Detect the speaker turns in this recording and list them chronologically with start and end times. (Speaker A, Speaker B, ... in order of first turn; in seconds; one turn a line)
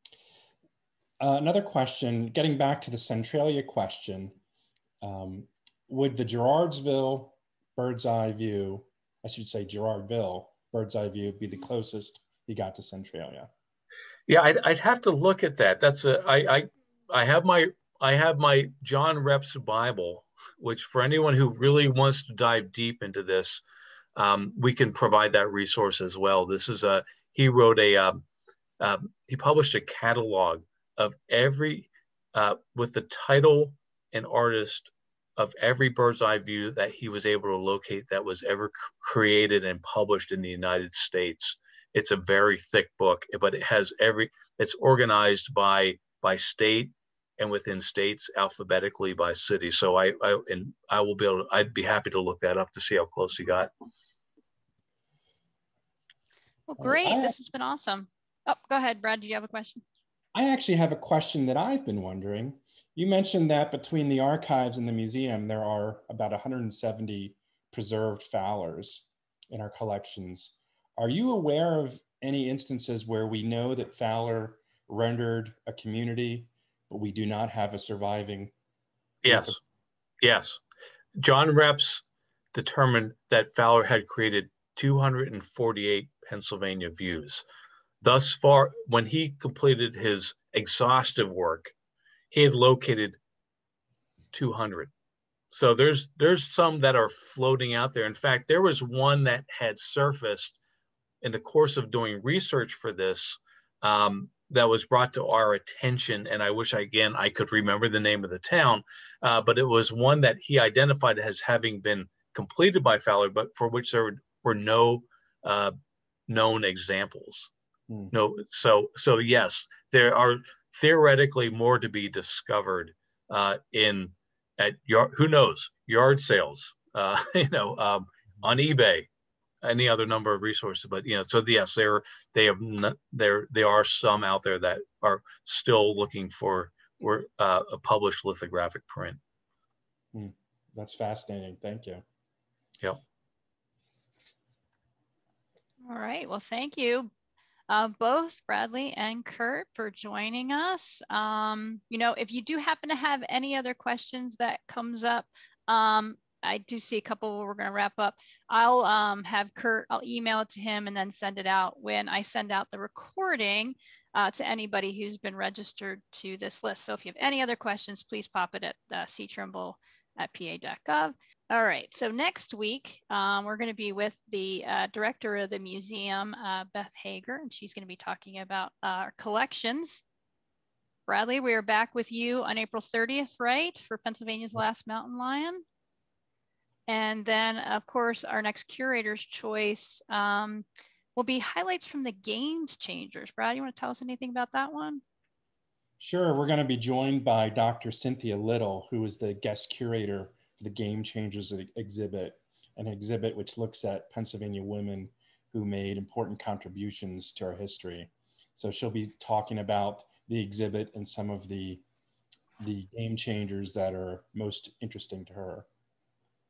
Speaker A: 1.2-4.3
Speaker A: 5.0-13.5
Speaker B: 14.3-23.6
Speaker B: 24.1-28.2
Speaker B: 28.8-53.7
Speaker C: 56.7-59.8
Speaker A: 56.8-57.3
Speaker A: 60.3-78.5
Speaker B: 79.2-79.6
Speaker A: 79.2-79.5
Speaker B: 80.2-80.6
Speaker B: 81.2-87.4
Speaker B: 88.0-91.7
Speaker B: 92.3-93.2
Speaker B: 94.3-94.9
Speaker B: 95.5-100.6
Speaker B: 101.2-115.7
Speaker B: 116.3-117.5
Speaker B: 118.1-129.1
Speaker B: 129.6-139.2
Speaker A: 140.1-142.0
Speaker C: 145.8-147.1
Speaker C: 147.7-180.0
Speaker C: 181.1-185.6
Speaker C: 186.9-195.0
Speaker A: 196.0-211.8
Speaker A: 212.6-215.7